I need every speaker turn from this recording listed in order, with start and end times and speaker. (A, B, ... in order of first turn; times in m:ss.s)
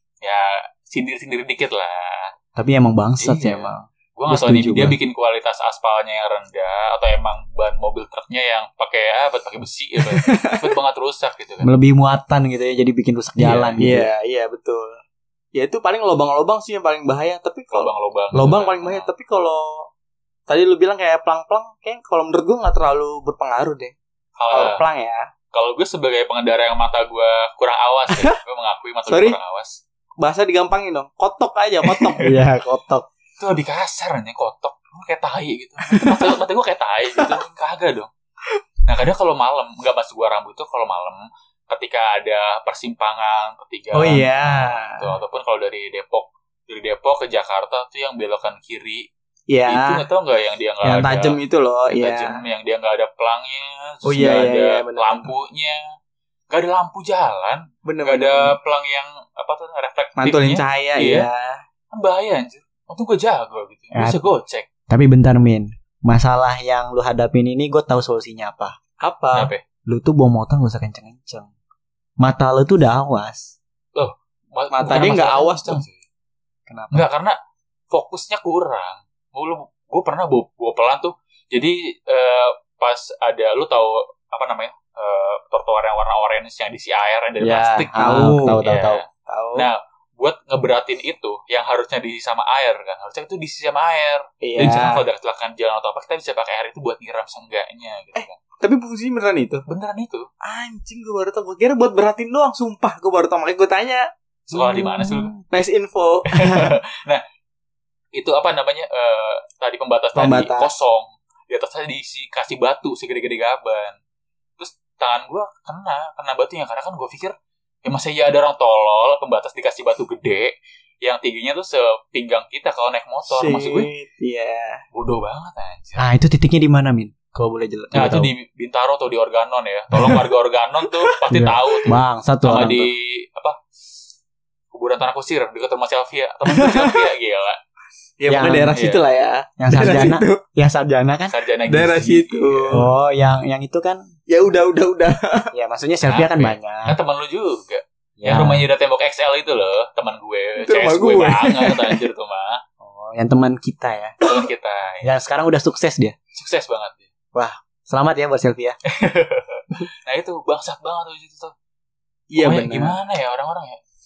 0:00.2-0:02.3 A
0:02.6-0:05.0 B
0:03.2-0:11.7 A
0:10.0-0:10.7 C
0:11.6-0:14.1 B
0:13.4-0:13.8 A
0:13.8-0:15.0 C
0:15.5-0:19.9 C
0:17.7-0:19.1 A
0:20.5-0:23.9 C
0:24.4-0:24.8 A
0:24.5-0:25.3 C
0:25.5-0:29.8 A
0:28.1-0:28.4 C
0:29.1-0:29.4 C
0:30.2-0:32.3 C
0:31.8-0:32.2 A
0:32.2-0:33.0 B
0:33.4-0:38.1 A
0:35.9-0:36.3 C
0:38.8-0:49.1 A
0:43.9-0:45.1 C
0:49.5-0:50.0 C
0:49.6-0:51.4 A
0:50.8-0:52.4 C
0:51.9-0:55.8 A
0:54.0-0:55.3 C
0:56.5-1:01.3 A
0:57.8-0:58.6 C
1:00.2-1:01.6 C
1:01.9-1:04.7 A
1:03.9-1:04.2 B
1:04.9-1:08.8 B
1:09.0-1:09.5 C
1:09.3-1:09.6 A
1:09.8-1:11.5 B
1:12.2-1:13.5 B
1:13.9-1:16.0 A
1:14.7-1:15.8 C
1:16.7-1:17.1 B
1:16.9-1:17.4 A
1:17.9-1:38.3 A
1:27.4-1:29.0 B
1:28.0-1:28.6 C
1:29.2-1:29.7 C
1:34.4-1:35.0 C
1:38.1-1:39.6 C
1:39.7-1:40.3 A
1:40.4-1:46.8 C
1:44.5-1:45.3 A
1:46.3-1:47.2 A
1:48.1-1:54.0 A
1:50.1-1:50.7 C
1:54.6-2:03.9 A
2:03.3-2:04.8 C
2:04.9-2:06.0 A
2:06.0-2:08.3 B
2:07.9-2:13.6 A
2:11.0-2:11.3 C
2:11.3-2:12.9 B
2:14.7-2:17.6 A
2:16.5-2:17.1 C
2:18.2-2:20.4 C
2:18.3-2:18.7 B
2:18.7-2:19.0 A
2:19.6-2:21.3 B
2:21.3-2:22.8 A
2:21.7-2:22.9 C
2:22.7-2:24.1 B
2:24.3-2:25.5 C
2:25.5-2:27.0 B
2:26.0-2:32.6 A
2:28.2-2:28.6 B
2:30.6-2:32.0 C
2:32.8-2:34.2 B
2:34.2-2:35.0 A
2:35.0-2:36.1 B
2:36.3-2:37.1 A
2:37.3-2:38.8 B
2:38.9-2:41.5 A
2:42.3-2:43.0 C
2:42.4-2:43.8 A